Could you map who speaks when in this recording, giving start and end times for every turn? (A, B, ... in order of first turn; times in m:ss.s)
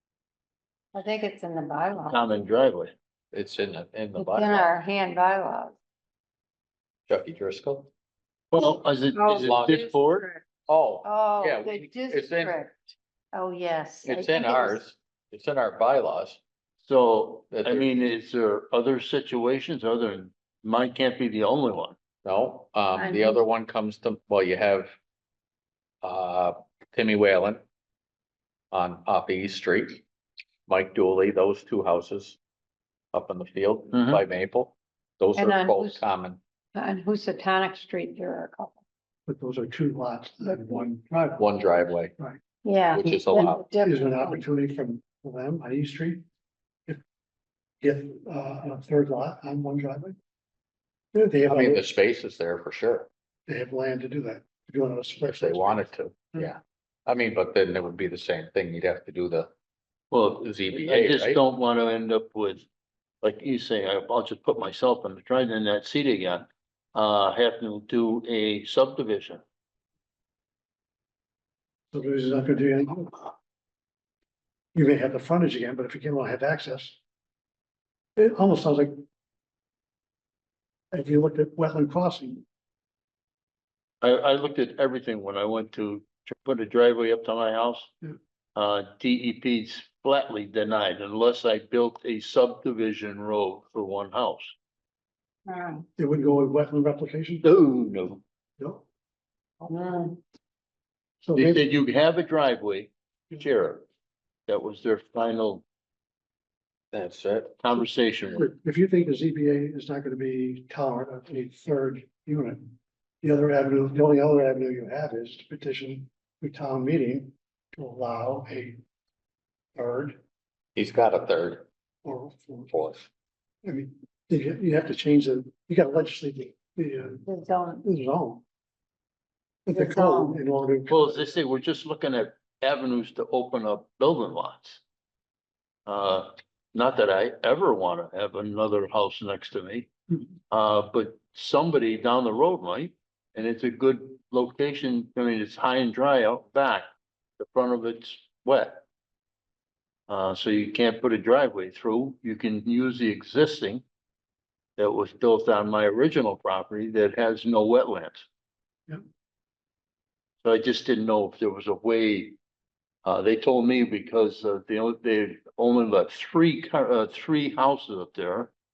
0:00.9-0:02.2 A
0:02.0-0:02.9 B
0:03.3-0:04.7 C
0:04.2-0:05.8 A
0:07.1-0:07.9 C
0:08.5-0:10.3 B
0:09.1-0:10.4 A
0:09.3-0:09.8 C
0:10.7-0:12.6 C
0:11.0-0:12.8 A
0:13.3-0:14.8 A
0:14.0-0:16.4 C
0:16.8-0:22.0 B
0:17.5-0:17.9 C
0:22.2-0:24.9 C
0:22.9-0:23.4 A
0:26.0-0:27.6 C
0:28.7-0:30.0 C
0:30.7-0:32.4 C
0:33.1-0:36.4 C
0:33.9-0:34.2 B
0:35.4-0:36.0 A
0:36.8-0:38.8 A
0:39.3-0:41.4 D
0:41.4-0:42.1 C
0:42.6-0:44.4 A
0:42.9-0:43.6 C
0:43.8-0:46.2 D
0:47.8-0:50.2 D
0:51.1-0:51.8 D
0:51.5-0:53.1 C
0:53.5-0:55.9 D
0:55.2-0:59.5 C
1:00.1-1:02.7 B
1:00.4-1:01.4 C
1:03.2-1:09.4 B
1:11.9-1:13.4 D
1:14.8-1:17.0 D
1:18.2-1:19.0 D
1:20.9-1:22.4 D
1:24.0-1:27.9 B
1:28.6-1:34.5 B
1:35.5-1:35.8 A
1:36.0-1:37.4 D
1:37.4-1:38.2 B
1:38.6-1:38.8 D
1:39.7-1:40.2 A
1:41.2-1:41.6 D
1:41.4-1:43.8 B
1:44.5-1:45.6 B
1:46.9-1:47.6 C
1:47.6-1:48.5 B
1:48.3-1:58.8 D
1:59.8-2:00.2 D
2:00.8-2:01.7 C
2:02.0-2:02.7 D
2:02.7-2:03.1 C
2:03.6-2:07.2 D
2:07.2-2:07.8 A
2:07.8-2:08.4 D
2:09.7-2:11.3 D
2:09.7-2:10.4 A
2:10.9-2:14.8 B
2:15.9-2:19.9 B
2:20.5-2:26.9 B
2:27.4-2:28.8 B
2:30.1-2:33.8 B
2:34.8-2:38.3 B
2:40.4-2:42.4 B
2:43.0-2:48.5 B